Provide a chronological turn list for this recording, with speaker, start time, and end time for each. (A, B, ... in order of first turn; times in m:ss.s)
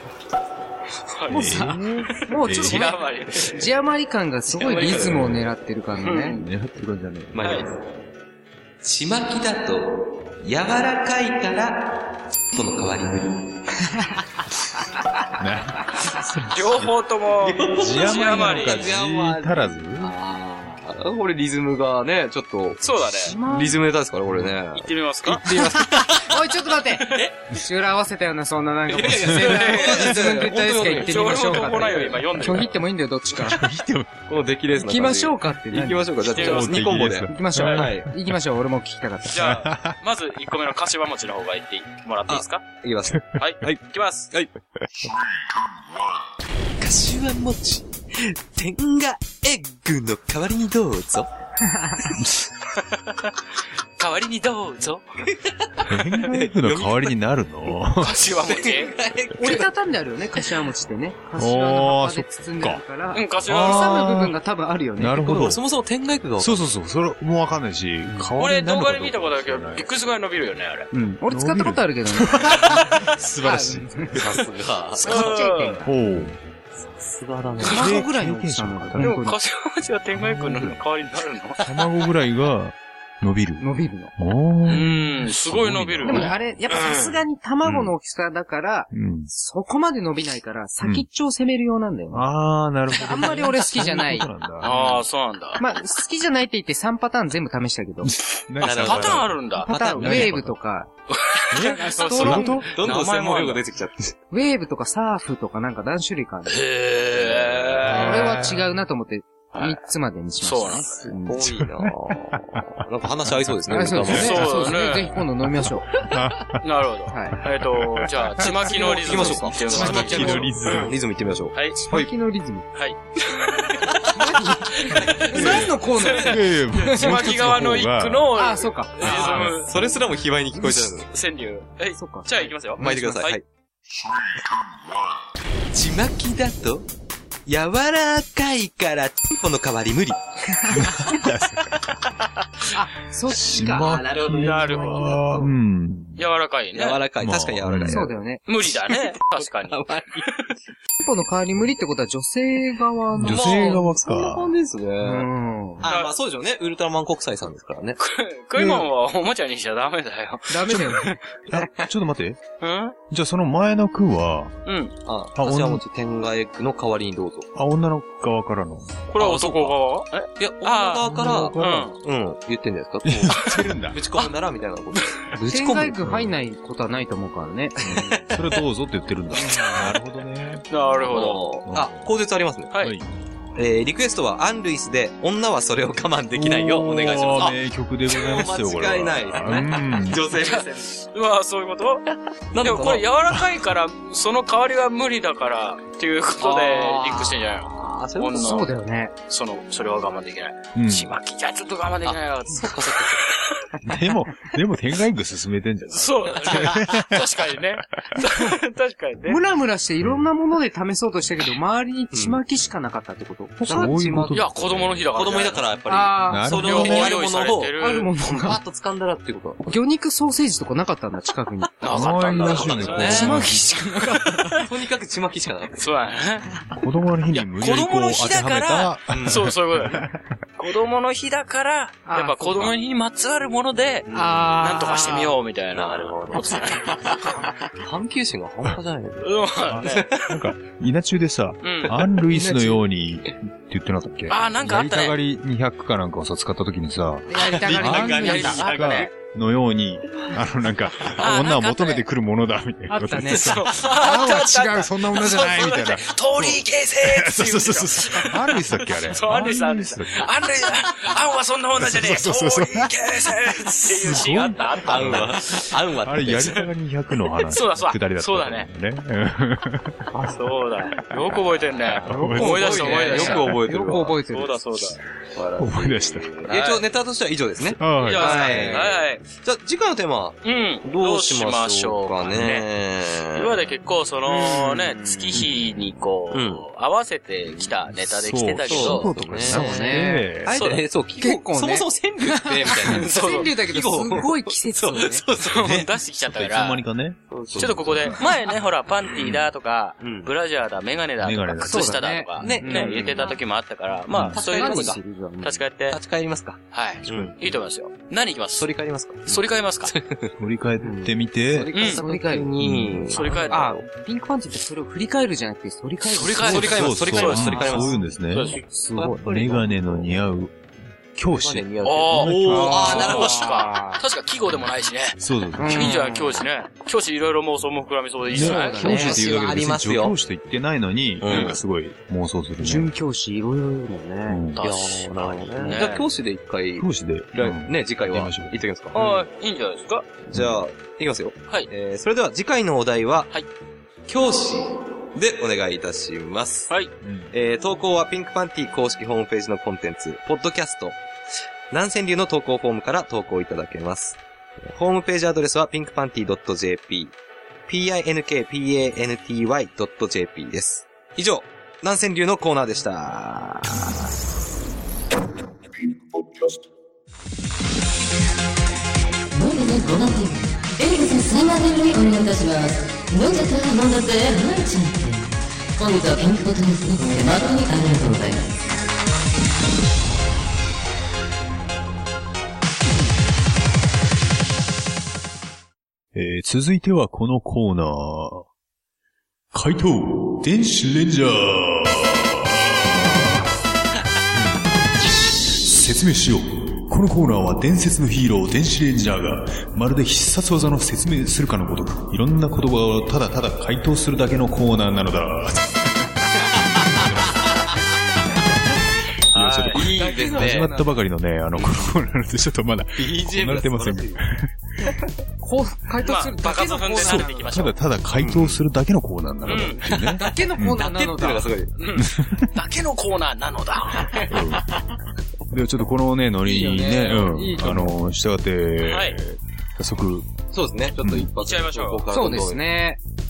0:01.1-0:03.6 A
0:01.3-0:06.4 B
0:01.3-0:03.0 C
0:04.5-0:05.2 A
0:04.9-0:05.4 C
0:06.0-0:06.4 A
0:06.3-0:07.6 C
0:07.3-0:07.8 D
0:07.4-0:07.6 A
0:08.8-0:13.8 D
0:15.4-0:16.9 C
0:16.5-0:18.9 A
0:17.4-0:26.3 D
0:17.7-0:20.1 C
0:22.8-0:23.4 A
0:23.2-0:23.8 B
0:24.7-0:25.5 A
0:25.5-0:33.6 B
0:28.9-0:32.2 D
0:29.4-0:30.2 A
0:30.9-0:32.8 A
0:33.3-0:34.1 C
0:34.3-0:38.1 D
0:34.8-0:36.0 B
0:36.2-0:36.8 A
0:36.3-0:38.1 C
0:37.3-0:39.4 B
0:39.3-0:42.6 A
0:39.3-0:40.0 C
0:42.3-0:44.5 D
0:43.1-0:43.4 C
0:43.4-0:44.3 A
0:46.8-0:51.3 D
0:51.6-0:52.2 B
0:52.2-0:52.5 C
0:52.8-0:53.4 A
0:54.0-0:55.0 A
0:55.3-0:57.2 D
0:55.9-0:58.2 C
0:58.0-0:59.0 A
0:58.4-0:59.7 D
0:59.4-1:05.2 B
1:01.4-1:02.8 C
1:03.1-1:04.0 A
1:03.4-1:04.4 C
1:05.0-1:05.6 C
1:05.1-1:06.6 D
1:06.4-1:09.9 C
1:08.4-1:10.9 A
1:10.9-1:14.2 B
1:11.2-1:14.4 C
1:14.1-1:15.3 D
1:15.0-1:15.9 B
1:15.0-1:15.8 A
1:15.8-1:16.4 C
1:16.8-1:18.0 D
1:17.6-1:19.4 B
1:17.6-1:19.2 C
1:19.0-1:21.8 A
1:20.1-1:20.8 C
1:21.6-1:23.6 C
1:23.6-1:24.1 B
1:24.2-1:26.5 C
1:24.7-1:27.2 A
1:26.0-1:32.3 B
1:27.6-1:27.9 C
1:28.9-1:29.3 C
1:32.1-1:34.7 C
1:33.0-1:34.9 B
1:34.6-1:35.6 A
1:35.6-1:38.1 B
1:38.0-1:40.6 C
1:38.6-1:40.4 D
1:38.6-1:39.7 A
1:39.5-1:40.9 B
1:41.1-1:43.6 A
1:41.5-1:42.7 C
1:41.5-1:42.7 B
1:42.7-1:44.2 D
1:44.3-1:46.6 B
1:46.5-1:48.3 A
1:47.1-1:48.0 D
1:47.8-1:48.7 C
1:47.9-1:51.4 B
1:49.5-1:49.8 A
1:50.4-1:51.1 A
1:51.1-1:54.5 D
1:51.3-1:54.2 C
1:53.7-1:55.9 B
1:54.1-1:55.2 A
1:56.0-1:56.6 C
1:56.6-2:00.7 A
1:57.1-1:57.4 B
1:57.5-2:00.9 C
1:58.6-2:02.1 D
1:59.8-2:00.5 B
2:01.5-2:01.9 A
2:01.9-2:02.6 B
2:02.7-2:04.0 A
2:03.8-2:04.1 D
2:04.1-2:07.2 B
2:04.9-2:09.9 A
2:05.2-2:08.3 C
2:08.3-2:09.5 B
2:09.0-2:09.5 C
2:09.0-2:11.1 D
2:10.6-2:13.4 A
2:12.0-2:13.3 B
2:12.8-2:13.4 D
2:15.7-2:16.9 D
2:17.5-2:20.2 D
2:20.6-2:21.1 B
2:20.7-2:22.0 C
2:22.7-2:25.5 B
2:23.3-2:26.2 C
2:24.2-2:25.2 A
2:26.2-2:27.0 A
2:26.7-2:28.1 D
2:27.2-2:28.1 C
2:27.9-2:28.4 B
2:28.5-2:30.4 A
2:28.8-2:30.5 D
2:31.0-2:33.8 B
2:33.1-2:34.5 C
2:33.2-2:38.0 D
2:35.0-2:35.8 B
2:35.8-2:36.1 A
2:38.0-2:41.2 A
2:38.5-2:38.9 C
2:40.5-2:41.2 B
2:41.5-2:42.4 C
2:42.6-2:42.9 A
2:43.1-2:44.6 C
2:44.6-2:44.9 A
2:45.0-2:47.5 D
2:45.3-2:45.8 C
2:47.5-2:49.0 C
2:49.1-2:52.0 A
2:49.2-2:49.8 D
2:50.4-2:56.0 D
2:51.0-2:51.9 C
2:53.0-2:54.0 C
2:55.4-2:58.2 B
2:56.0-2:56.3 C
2:57.8-3:00.6 C
2:57.9-2:58.2 D
3:00.7-3:01.4 A
3:01.1-3:02.7 D
3:01.7-3:02.1 C
3:02.8-3:03.1 C
3:03.6-3:11.0 D
3:06.3-3:10.2 C
3:10.3-3:12.0 A
3:12.5-3:13.0 D
3:12.6-3:18.7 A
3:13.3-3:13.6 C
3:16.4-3:18.7 D
3:18.4-3:19.1 B
3:19.3-3:23.6 A
3:20.7-3:21.1 C
3:22.0-3:23.3 D
3:23.8-3:27.4 C
3:25.9-3:29.4 A
3:28.2-3:28.5 B
3:29.2-3:34.0 B
3:30.0-3:30.3 C
3:32.1-3:32.4 D
3:33.6-3:35.0 C
3:33.6-3:39.7 D
3:34.3-3:35.6 A
3:35.9-3:36.7 B
3:36.3-3:37.1 C
3:36.5-3:38.1 A
3:37.8-3:38.6 B
3:39.7-3:44.6 B
3:41.8-3:44.6 A
3:41.8-3:43.7 C
3:41.8-3:43.3 D
3:44.5-3:45.9 D
3:45.8-3:46.4 A
3:46.7-3:50.2 C
3:47.3-3:50.0 A
3:49.1-3:49.5 D
3:50.6-3:57.3 A
3:52.0-3:52.7 B
3:54.1-3:54.4 D
3:54.1-3:55.3 B
3:55.7-4:00.1 D
3:59.2-4:00.4 A
3:59.7-4:20.3 C
4:01.6-4:02.0 A
4:02.3-4:02.8 B
4:04.3-4:05.2 A
4:07.3-4:08.7 B
4:07.4-4:09.1 D
4:08.0-4:09.1 A
4:11.2-4:12.0 A
4:12.9-4:14.6 B
4:13.3-4:25.7 A
4:21.8-4:22.9 C
4:23.8-4:30.1 C
4:24.8-4:26.6 D
4:27.5-4:28.7 A
4:30.3-4:33.6 A
4:32.0-4:33.4 C
4:32.0-4:34.6 B
4:32.3-4:34.2 D
4:34.3-4:35.0 A
4:35.3-4:43.6 D
4:35.6-4:36.3 C
4:36.5-4:36.8 A
4:37.7-4:38.8 C
4:38.0-4:39.2 A
4:40.4-4:42.7 A
4:43.3-4:49.2 A
4:44.2-4:45.3 B
4:46.3-4:46.6 D
4:48.0-4:50.6 C
4:48.6-4:49.9 D
4:49.4-4:55.2 B
4:50.5-4:55.7 D
4:52.8-4:53.5 A
4:55.4-4:56.8 A
4:55.5-4:58.2 C
4:57.3-4:58.3 D
4:57.6-5:06.0 A
5:00.0-5:00.3 D
5:01.2-5:02.5 C
5:01.6-5:03.3 B
5:02.4-5:03.4 D
5:04.1-5:04.4 C
5:04.1-5:05.0 D
5:04.4-5:05.6 B
5:05.9-5:07.5 D
5:06.7-5:08.7 A
5:08.6-5:10.3 D
5:09.3-5:09.9 A
5:10.4-5:11.7 C
5:10.9-5:13.8 D
5:11.7-5:12.0 A
5:11.8-5:12.5 B
5:12.6-5:13.2 C
5:13.1-5:13.7 A
5:13.5-5:16.6 B
5:16.1-5:18.6 A
5:16.4-5:18.0 D
5:16.4-5:20.6 C
5:18.7-5:19.2 B
5:18.9-5:20.2 D
5:21.1-5:23.0 C
5:21.3-5:23.5 D
5:21.8-5:29.5 A
5:22.6-5:24.0 B
5:25.2-5:26.0 C
5:25.6-5:26.4 B
5:28.3-5:32.9 C
5:28.4-5:29.2 B
5:28.8-5:30.1 D
5:31.2-5:31.6 D
5:31.2-5:31.6 A
5:32.6-5:34.4 B
5:34.3-5:34.6 C
5:34.6-5:36.1 A
5:34.6-5:39.2 D
5:36.7-5:38.6 C
5:38.9-5:40.0 A
5:40.3-5:43.3 D
5:40.3-5:40.6 C
5:44.1-5:46.7 D
5:47.0-5:47.3 C
5:47.3-5:51.0 D
5:51.7-5:57.1 D
5:57.7-6:04.0 D
6:09.3-6:18.5 E
6:26.1-6:28.5 C
6:29.5-6:33.5 C
6:34.3-6:34.6 C
6:35.5-6:46.2 C
6:46.5-6:47.6 D
6:46.8-6:47.6 C
6:49.3-6:49.9 A
6:49.3-6:54.5 C
6:49.7-6:50.8 D
6:50.0-6:50.9 B
6:51.5-6:51.9 D
6:53.0-6:54.2 D
6:55.4-6:57.6 B
6:56.0-6:57.7 A
6:57.0-7:00.8 C
6:58.1-6:58.6 D
6:59.4-6:59.8 A
6:59.8-7:01.7 D
7:00.1-7:01.5 B
7:01.8-7:04.3 A
7:02.0-7:02.5 C
7:04.3-7:04.7 C
7:05.5-7:10.3 C
7:06.4-7:08.0 B
7:08.8-7:09.2 A
7:10.5-7:12.7 D
7:11.0-7:11.3 C
7:11.4-7:12.0 A
7:12.1-7:13.0 B